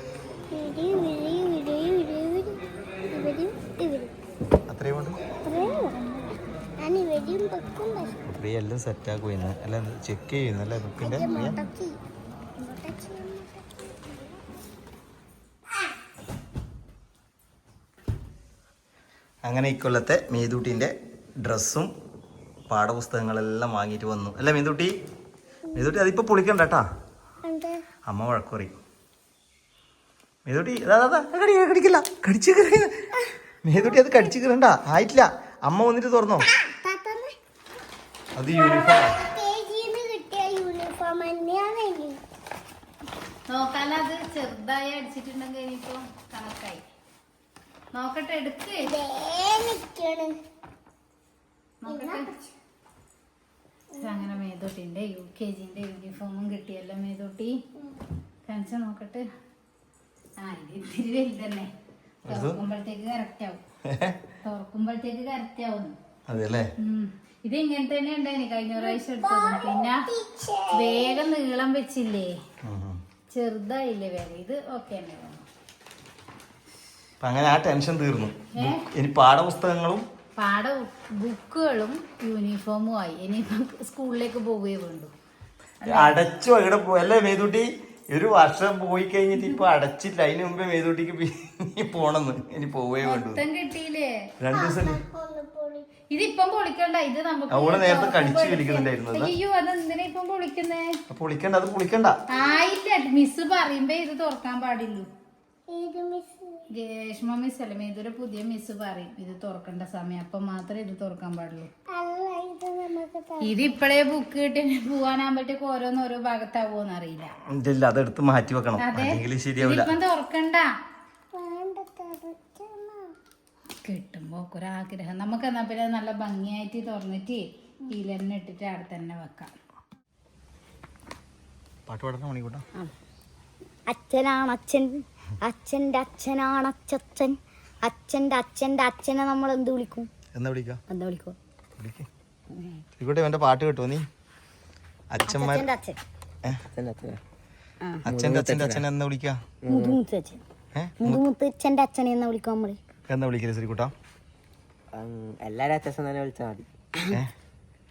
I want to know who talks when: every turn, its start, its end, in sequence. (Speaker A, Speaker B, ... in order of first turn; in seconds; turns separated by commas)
Speaker A: 0.5-2.6, Speaker A: 3.1-4.1, Speaker B: 4.7-5.2, Speaker A: 5.4-6.1, Speaker A: 6.8-8.2, Speaker B: 8.3-11.6, Speaker A: 11.0-11.9, Speaker A: 12.6-14.1, Speaker B: 19.4-21.9, Speaker B: 22.7-24.9, Speaker A: 25.7-26.0, Speaker B: 25.8-26.9, Speaker A: 27.4-27.8, Speaker B: 28.1-28.8, Speaker B: 30.5-33.1, Speaker B: 33.6-36.5, Speaker A: 36.5-37.3, Speaker B: 38.4-39.2, Speaker A: 38.5-42.2, Speaker C: 43.5-46.8, Speaker C: 47.9-48.9, Speaker A: 48.8-50.3, Speaker C: 51.8-52.3, Speaker A: 51.9-52.6, Speaker A: 53.9-54.3, Speaker C: 54.0-57.5, Speaker C: 58.5-59.2, Speaker C: 60.4-61.7, Speaker C: 62.3-63.6, Speaker B: 62.3-62.6, Speaker B: 63.9-64.2, Speaker C: 64.4-66.0, Speaker B: 66.3-66.7, Speaker C: 66.8-70.0, Speaker A: 68.8-71.3, Speaker C: 70.7-72.3, Speaker B: 72.6-73.0, Speaker C: 73.3-75.5, Speaker B: 77.2-80.1, Speaker C: 78.6-78.8, Speaker C: 80.4-85.1, Speaker C: 85.8-86.1, Speaker B: 85.9-93.4, Speaker C: 93.0-94.1, Speaker B: 94.4-95.0, Speaker A: 94.5-95.9, Speaker C: 96.1-100.9, Speaker B: 97.5-99.3, Speaker B: 101.1-102.2, Speaker C: 102.3-105.1, Speaker A: 105.7-106.6, Speaker C: 106.8-111.7, Speaker A: 111.9-113.6, Speaker C: 113.4-117.3, Speaker B: 117.5-120.0, Speaker C: 118.8-120.7, Speaker A: 121.4-123.1, Speaker C: 123.8-129.6, Speaker B: 131.9-132.7, Speaker D: 133.9-140.1, Speaker B: 140.3-140.8, Speaker D: 140.9-141.4, Speaker B: 141.8-142.1, Speaker D: 142.5-142.8, Speaker B: 143.0-144.0, Speaker B: 145.1-145.7, Speaker D: 145.3-146.0, Speaker E: 146.7-147.2, Speaker E: 148.1-148.8, Speaker B: 148.1-149.4, Speaker E: 149.6-150.0, Speaker D: 149.7-150.4, Speaker B: 150.7-151.2, Speaker D: 151.0-152.8, Speaker B: 153.1-153.9, Speaker E: 154.9-157.2